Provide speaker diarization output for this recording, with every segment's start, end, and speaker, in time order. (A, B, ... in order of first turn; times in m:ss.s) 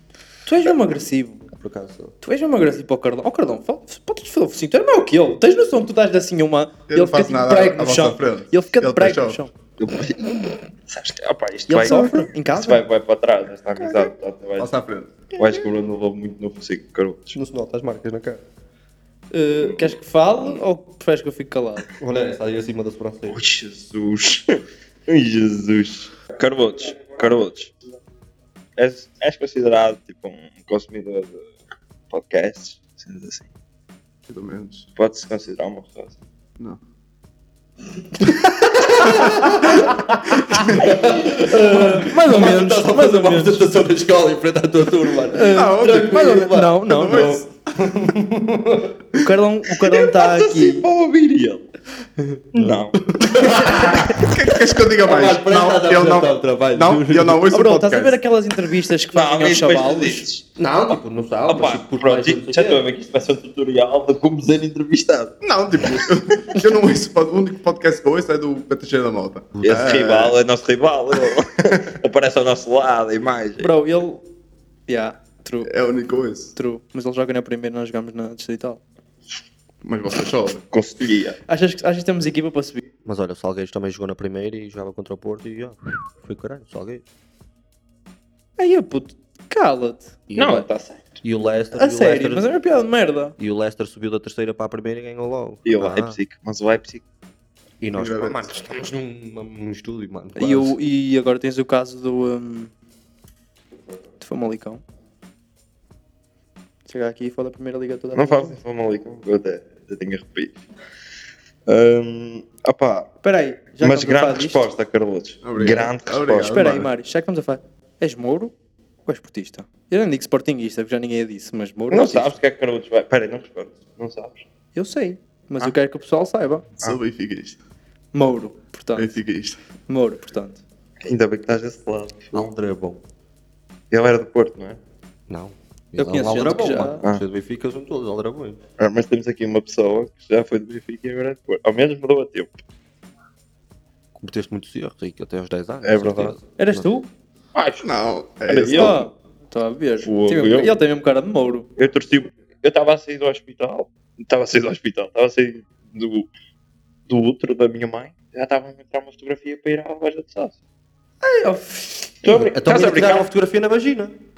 0:00.4-0:01.4 A
0:01.5-0:02.1 B
0:02.2-0:09.5 A
0:06.9-0:09.4 C
0:09.8-0:14.7 D
0:11.7-0:12.8 A
0:11.9-0:12.2 B
0:14.6-0:15.3 C
0:15.3-0:17.4 D
0:17.3-0:18.4 B
0:19.3-0:21.8 A
0:19.7-0:19.9 D
0:22.0-0:23.4 B
0:23.3-0:27.7 D
0:28.8-0:31.4 D
0:32.1-0:33.5 D
0:34.3-0:34.9 C
0:35.0-0:36.2 D
0:38.2-0:46.8 B
0:40.3-0:40.6 A
0:40.5-0:40.8 C
0:41.4-0:43.8 A
0:45.3-0:47.4 A
0:45.5-0:47.9 C
0:47.8-0:49.0 B
0:49.1-0:50.8 A
0:50.0-0:51.6 D
0:52.2-0:54.4 B
0:52.5-0:53.0 D
0:53.7-0:58.2 C
0:55.0-0:57.4 B
0:57.5-1:00.2 A
0:59.1-1:00.4 D
1:00.6-1:02.8 B
1:01.4-1:06.0 D
1:05.4-1:10.4 C
1:09.6-1:10.0 B
1:09.6-1:13.7 D
1:13.6-1:14.2 A
1:14.9-1:15.7 A
1:15.6-1:16.5 C
1:16.5-1:18.8 A
1:19.8-1:20.6 C
1:20.7-1:21.4 D
1:21.5-1:22.8 A
1:23.0-1:27.0 B
1:28.6-1:30.6 A
1:30.3-1:30.6 B
1:30.3-1:31.2 D
1:31.2-1:32.5 B
1:31.7-1:33.3 A
1:33.4-1:36.2 B
1:35.6-1:37.0 D
1:37.8-1:40.7 B
1:37.9-1:38.4 C
1:40.4-1:42.7 A
1:44.2-1:44.8 A
1:46.9-1:48.6 A
1:48.1-1:50.6 D
1:51.7-1:53.1 D
1:53.2-1:54.6 A
1:53.8-1:56.7 D
1:55.4-1:56.9 C
1:56.4-1:58.5 A
1:59.0-2:02.4 A
2:01.9-2:04.4 D
2:04.7-2:06.6 A
2:06.8-2:07.6 C
2:08.1-2:09.2 A
2:08.9-2:09.6 C
2:09.9-2:10.6 A
2:11.0-2:12.5 D
2:12.3-2:13.0 B
2:13.9-2:14.8 D
2:15.3-2:18.6 B
2:16.0-2:17.0 A
2:18.8-2:22.6 D
2:24.2-2:26.9 B
2:25.8-2:26.4 D
2:26.6-2:27.1 A
2:27.5-2:27.8 D
2:27.8-2:29.1 C
2:28.4-2:29.1 D
2:28.7-2:31.7 A
2:30.0-2:30.8 D
2:31.8-2:36.3 D
2:37.1-2:40.6 D
2:41.2-2:42.1 A
2:42.2-2:43.3 D
2:42.3-2:44.1 B